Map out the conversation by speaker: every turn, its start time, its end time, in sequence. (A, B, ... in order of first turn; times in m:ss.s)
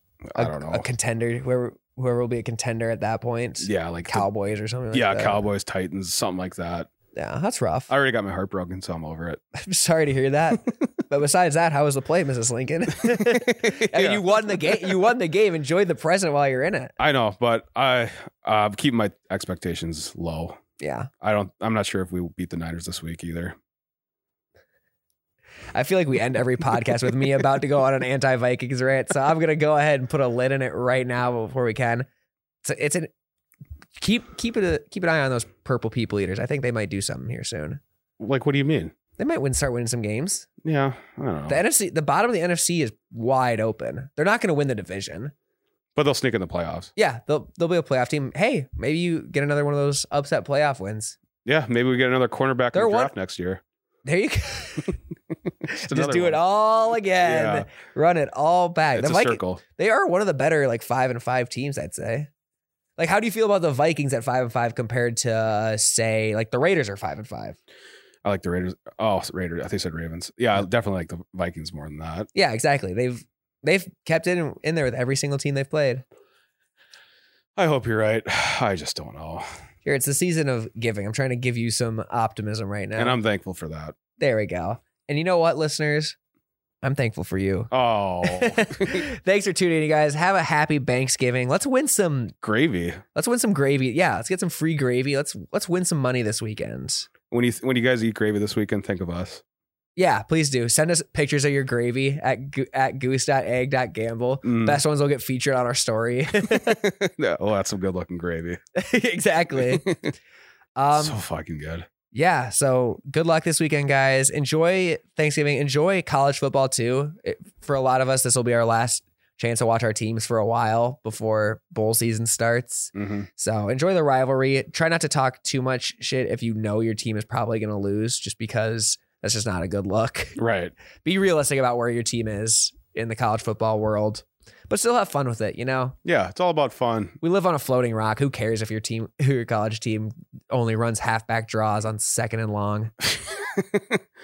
0:00.3-0:00.9 A
0:00.4-0:05.5 B
0:03.6-0:04.3 A
0:04.9-0:06.9 A
0:07.2-0:07.9 B
0:07.9-0:09.4 A
0:09.6-0:16.9 B
0:13.1-0:15.0 A
0:17.0-0:20.6 A
0:20.8-0:21.1 B
0:21.2-0:23.6 A
0:25.7-0:32.1 B
0:32.6-0:33.1 B
0:34.0-0:37.8 B
0:38.2-0:38.9 A
0:39.2-0:40.5 B
0:40.6-0:41.6 A
0:41.5-0:45.3 B
0:46.0-0:46.9 A
0:47.0-0:51.2 B
0:51.4-0:53.6 A
0:52.7-0:53.1 B
0:54.0-0:55.0 B
0:55.7-0:56.4 A
0:55.7-1:02.3 B
0:57.2-0:57.7 A
0:58.9-0:59.6 A
1:03.0-1:07.6 B
1:08.2-1:12.3 A
1:12.3-1:16.0 B
1:17.6-1:19.5 A
1:19.8-1:23.2 B
1:23.0-1:24.0 A
1:24.2-1:26.2 B
1:26.8-1:27.7 B
1:27.7-1:29.0 A
1:28.2-1:32.4 B
1:32.4-1:33.0 A
1:33.1-1:37.1 B
1:37.3-1:39.4 A
1:40.0-1:46.8 B
1:44.4-1:44.8 A
1:46.5-1:48.6 A
1:48.8-1:49.9 B
1:49.6-1:50.1 A
1:50.8-1:51.2 B
1:50.9-1:51.9 A
1:52.1-2:10.4 B
2:03.0-2:03.3 A
2:10.4-2:10.7 A
2:11.0-2:16.0 B
2:16.0-2:17.2 A
2:17.2-2:22.9 B
2:23.1-2:24.0 A